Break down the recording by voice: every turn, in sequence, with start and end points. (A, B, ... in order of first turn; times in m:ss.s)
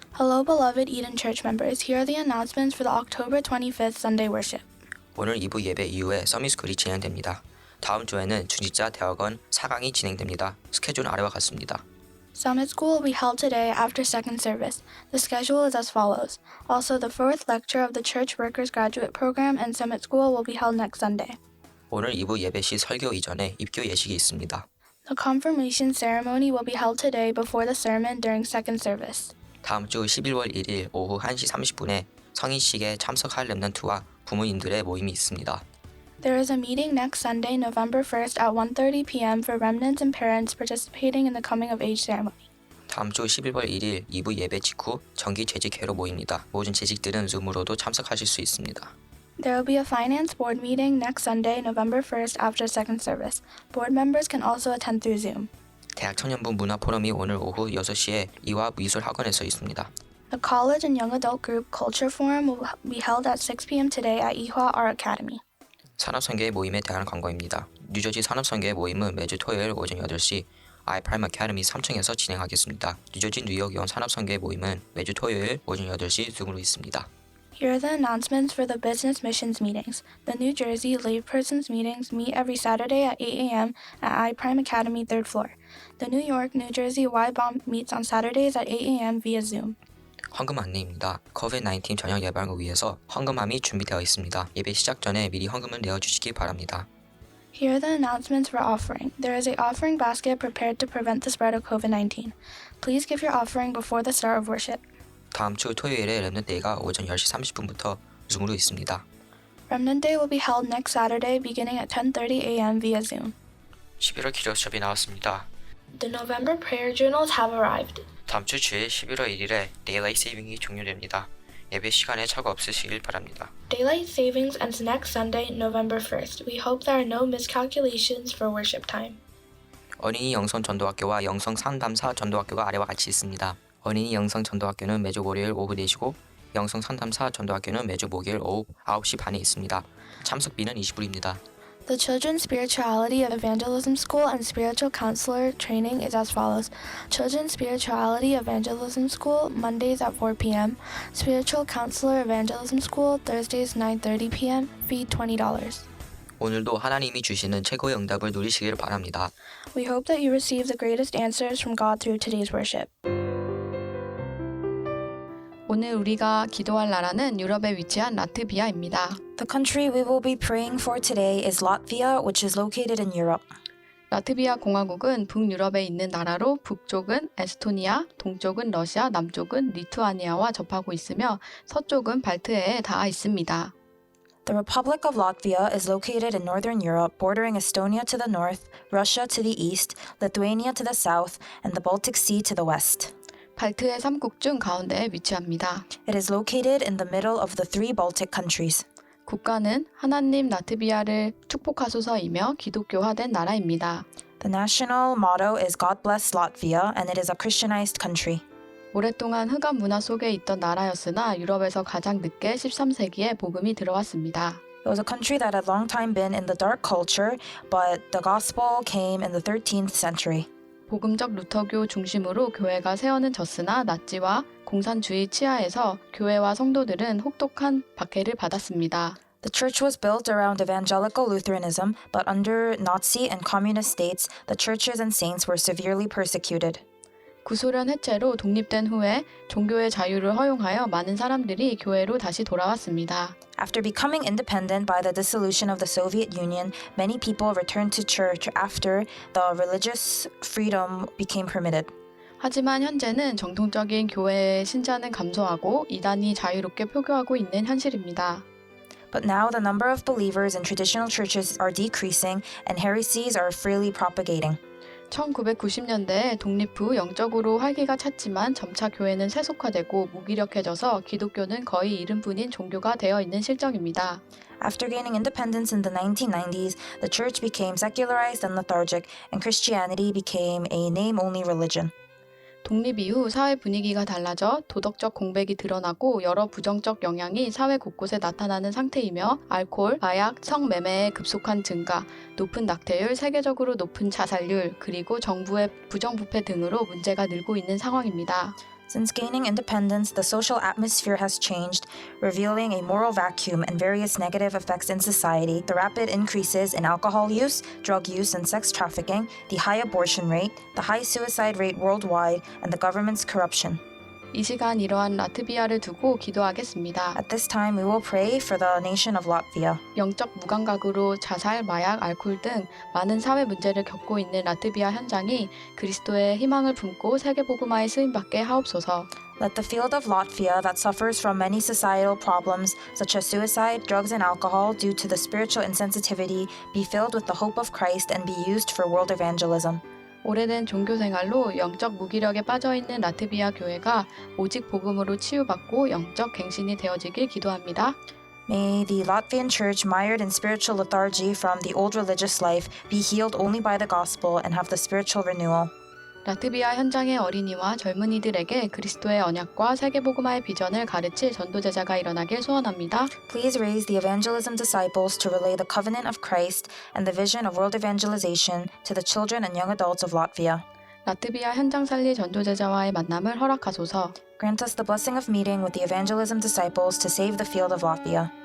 0:00.1-0:04.6 A
0:05.2-0:11.8 B
0:12.4-0:21.4 A
0:21.9-0:24.7 B
0:25.1-0:29.4 A
0:29.6-0:35.6 B
0:36.2-0:42.5 A
0:42.9-0:48.9 B
0:49.4-0:55.5 A
0:56.0-0:59.9 B
1:00.3-1:05.4 A
1:06.0-1:17.1 B
1:17.6-1:29.8 A
1:30.3-1:36.9 B
1:37.5-1:44.8 A
1:45.3-1:49.0 B
1:49.7-1:53.4 A
1:54.0-1:55.5 B
1:55.9-1:58.1 A
1:58.3-2:03.5 B
2:03.7-2:09.2 A
2:10.0-2:21.4 B
2:21.9-2:35.9 A
2:36.4-2:39.3 B
2:39.7-2:42.9 A
2:45.7-2:49.2 C
2:49.4-2:53.5 D
2:54.1-3:03.7 C
3:04.5-3:13.1 D
3:13.6-3:15.9 C
3:16.0-3:18.8 D
3:19.3-3:24.0 C
3:24.4-3:28.4 D
3:28.9-3:34.6 C
3:34.8-3:40.5 D
3:40.9-3:49.2 C
3:49.4-3:56.8 D
3:57.4-4:03.4 C
4:03.6-4:11.9 D
4:12.4-4:18.4 C
4:19.1-4:24.6 D
4:25.1-4:34.2 C
4:34.6-4:41.9 D
4:42.6-4:58.6 C
4:58.9-5:13.8 D
5:14.3-5:17.2 C
5:17.2-5:19.8 D
5:20.0-5:29.1 C
5:29.4-5:39.8 D
5:40.2-5:48.0 C
5:48.5-5:55.7 D
5:56.2-6:03.1 C
6:03.2-6:10.6 D
6:11.0-6:14.2 C
6:14.4-6:18.3 D